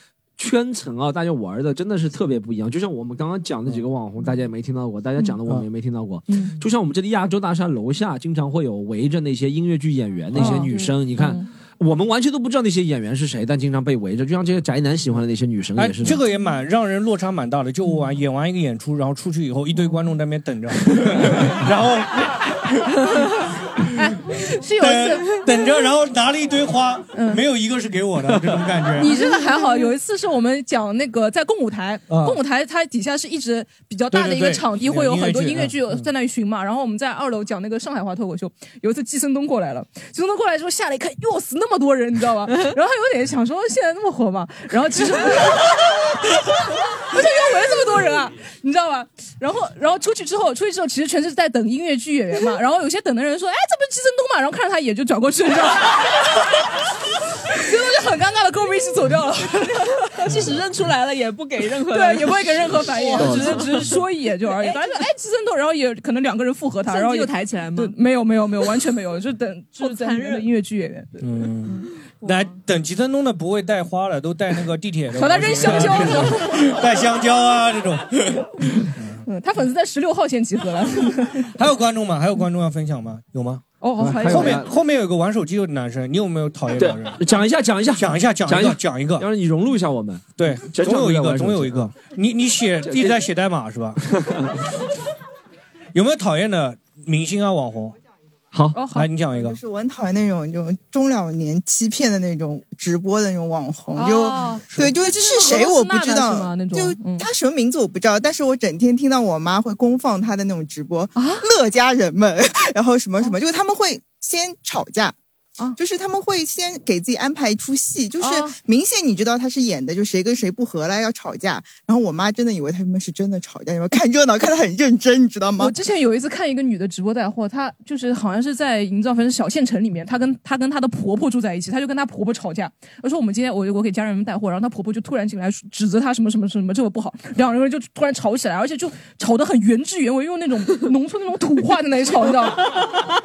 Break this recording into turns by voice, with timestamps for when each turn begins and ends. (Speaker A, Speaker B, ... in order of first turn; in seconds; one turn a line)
Speaker A: 0.4-16.2
Speaker B: 6.3-6.6
Speaker C: 10.3-10.7
Speaker B: 10.3-11.4
Speaker C: 15.8-23.1
Speaker B: 23.9-25.9
Speaker C: 24.8-29.1
Speaker B: 27.1-27.4
Speaker B: 28.9-56.4
Speaker C: 32.1-32.4
Speaker C: 34.1-36.1
Speaker B: 57.5-60.4
Speaker D: 60.2-63.9
Speaker B: 61.9-71.3
Speaker A: 63.2-63.8
Speaker D: 64.5-65.0
Speaker D: 66.9-68.0
Speaker D: 69.8-70.5
Speaker C: 71.2-79.2
Speaker B: 75.1-76.9
Speaker B: 79.2-81.5
Speaker C: 81.5-87.3
Speaker B: 83.8-84.6
Speaker A: 84.0-84.7
Speaker A: 86.7-91.9
Speaker C: 87.9-89.3
Speaker C: 90.4-94.3
Speaker A: 92.8-93.2
Speaker A: 94.1-94.5
Speaker C: 95.9-98.0
Speaker A: 98.5-98.8
Speaker B: 98.7-99.1
Speaker C: 98.9-99.6
Speaker E: 99.3-115.2
Speaker B: 103.9-107.3
Speaker B: 111.1-111.5
Speaker E: 115.8-125.8
Speaker B: 118.2-118.6
Speaker B: 125.6-143.0